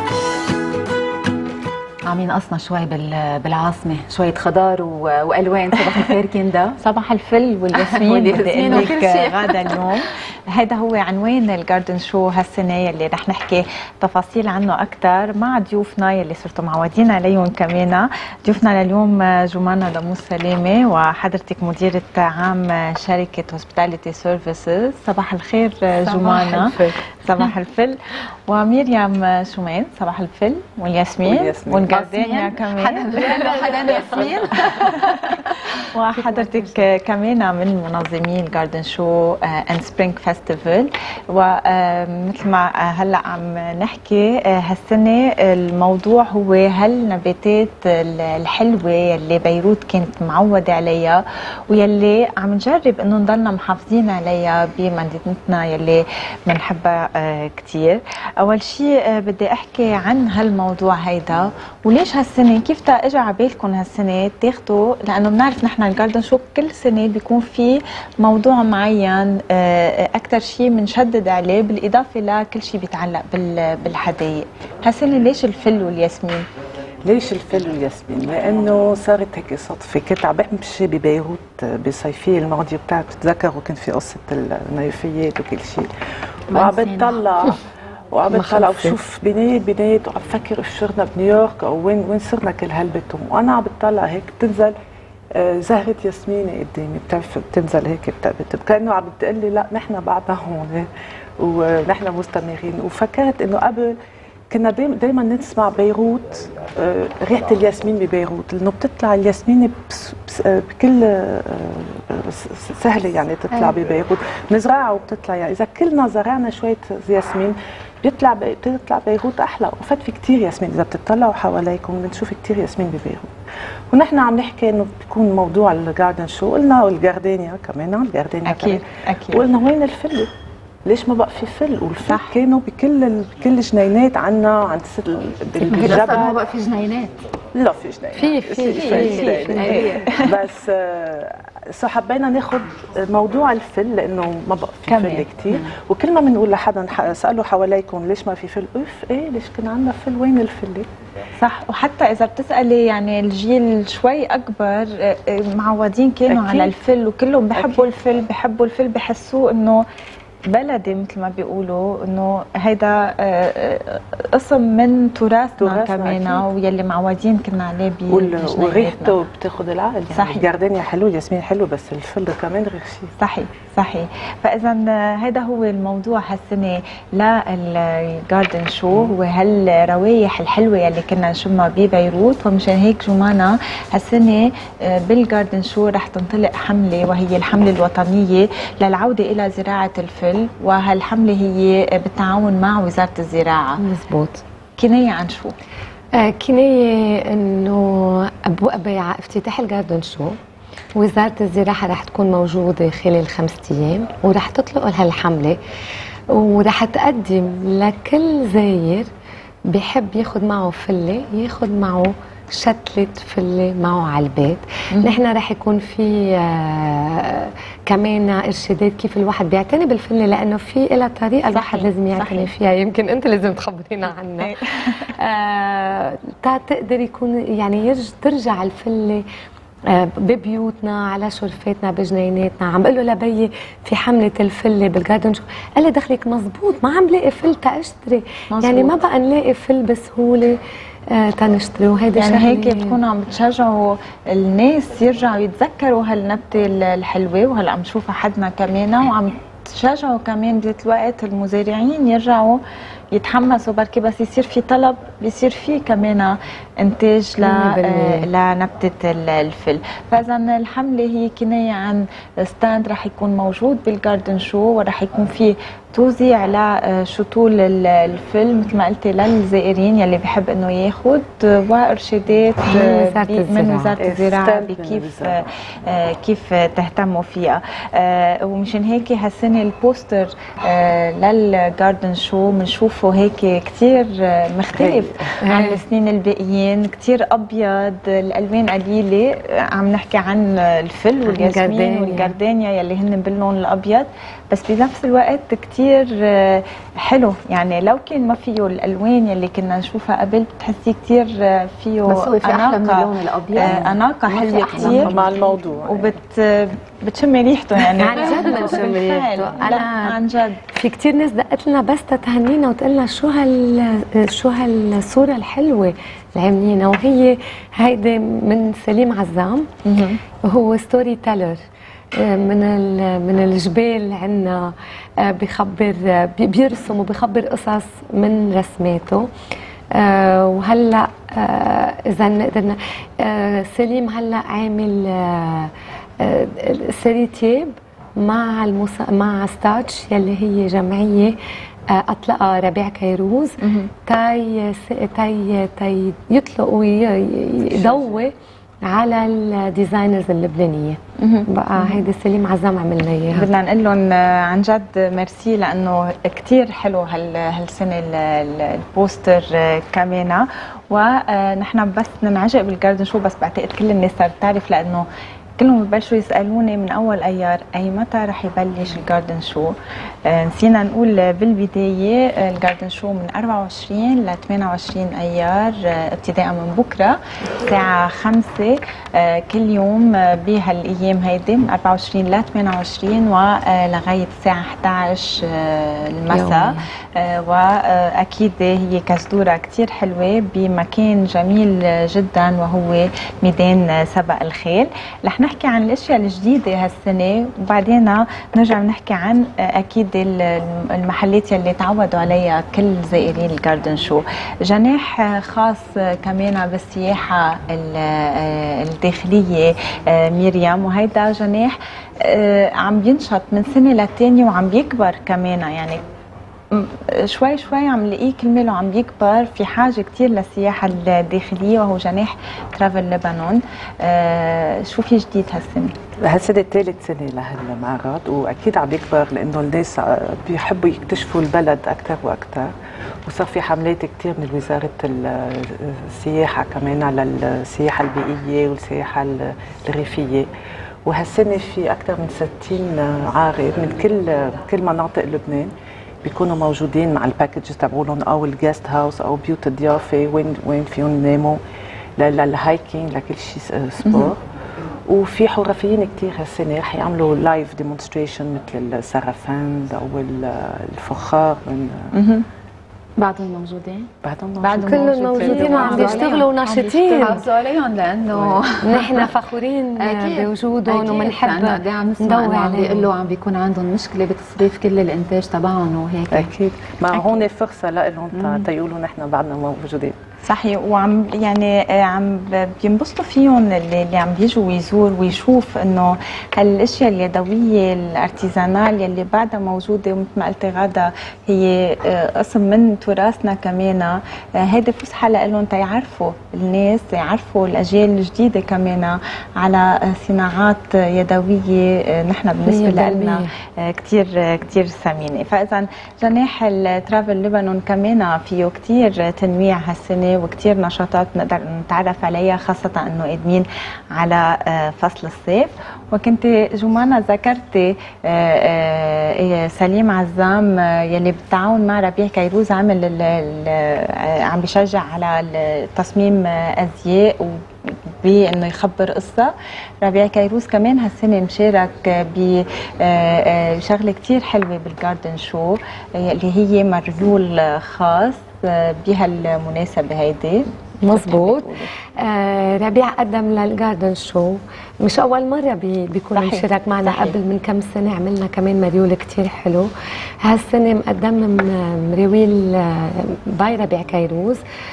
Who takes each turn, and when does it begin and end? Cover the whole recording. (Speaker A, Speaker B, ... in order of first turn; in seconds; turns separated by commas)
Speaker A: 2.1-6.8, Speaker B: 6.8-33.2, Speaker A: 7.7-9.9, Speaker A: 26.0-26.8, Speaker C: 31.2-31.9, Speaker A: 31.9-35.6, Speaker D: 33.4-33.9, Speaker B: 34.6-76.4, Speaker C: 77.0-85.9, Speaker C: 86.5-87.6, Speaker A: 86.5-87.2, Speaker C: 88.1-94.8, Speaker D: 88.3-89.0, Speaker C: 95.3-100.9, Speaker C: 101.4-104.0, Speaker C: 104.5-123.3, Speaker C: 123.9-130.3, Speaker B: 128.4-129.4, Speaker C: 130.9-136.4, Speaker B: 132.1-132.4, Speaker A: 135.6-137.1, Speaker C: 137.5-150.9, Speaker D: 138.1-140.0, Speaker B: 138.8-140.4, Speaker A: 139.2-140.1, Speaker B: 144.9-145.3, Speaker B: 151.4-159.8, Speaker C: 156.3-156.8, Speaker C: 157.6-157.9, Speaker B: 160.5-169.2, Speaker C: 165.6-166.5, Speaker C: 168.1-173.1, Speaker B: 170.1-170.5, Speaker B: 173.2-193.8, Speaker D: 193.8-194.4, Speaker B: 194.8-195.5, Speaker D: 196.2-200.4, Speaker D: 200.9-205.6, Speaker D: 206.3-209.1, Speaker D: 209.7-229.2, Speaker B: 214.9-215.2, Speaker B: 221.5-222.5, Speaker B: 224.4-225.1, Speaker D: 229.9-240.6, Speaker B: 238.5-238.9, Speaker D: 241.1-243.0, Speaker B: 242.2-252.6, Speaker B: 253.1-305.2, Speaker D: 257.4-258.3, Speaker D: 272.7-273.9, Speaker C: 274.0-275.4, Speaker C: 284.7-285.4, Speaker D: 285.4-285.8, Speaker D: 291.3-292.4, Speaker A: 302.1-305.4, Speaker C: 304.9-306.1, Speaker B: 305.9-310.6, Speaker D: 308.0-310.2, Speaker D: 310.7-319.7, Speaker B: 319.9-320.2, Speaker D: 320.4-321.6, Speaker D: 322.2-329.3, Speaker D: 329.9-341.4, Speaker D: 341.9-348.3, Speaker B: 343.6-343.9, Speaker C: 347.7-348.1, Speaker D: 348.9-353.5, Speaker B: 351.2-352.1, Speaker B: 353.3-365.1, Speaker B: 365.6-369.7, Speaker B: 370.3-416.0, Speaker D: 386.3-386.9, Speaker B: 416.7-426.0, Speaker C: 426.2-432.7, Speaker C: 433.3-440.5, Speaker C: 441.1-445.7, Speaker C: 446.2-451.6, Speaker C: 452.2-454.4, Speaker B: 454.0-454.3, Speaker C: 455.1-462.1, Speaker B: 462.1-462.4, Speaker A: 463.2-464.1, Speaker C: 464.2-466.2, Speaker B: 464.6-465.6, Speaker D: 464.9-467.5, Speaker A: 465.4-469.3, Speaker C: 468.4-468.6, Speaker D: 468.8-473.1, Speaker A: 470.0-476.5, Speaker C: 476.3-480.1, Speaker B: 478.4-478.7, Speaker B: 480.5-540.6, Speaker D: 502.7-503.5, Speaker D: 541.0-549.9, Speaker C: 541.1-541.9, Speaker B: 546.4-547.4, Speaker D: 550.4-554.6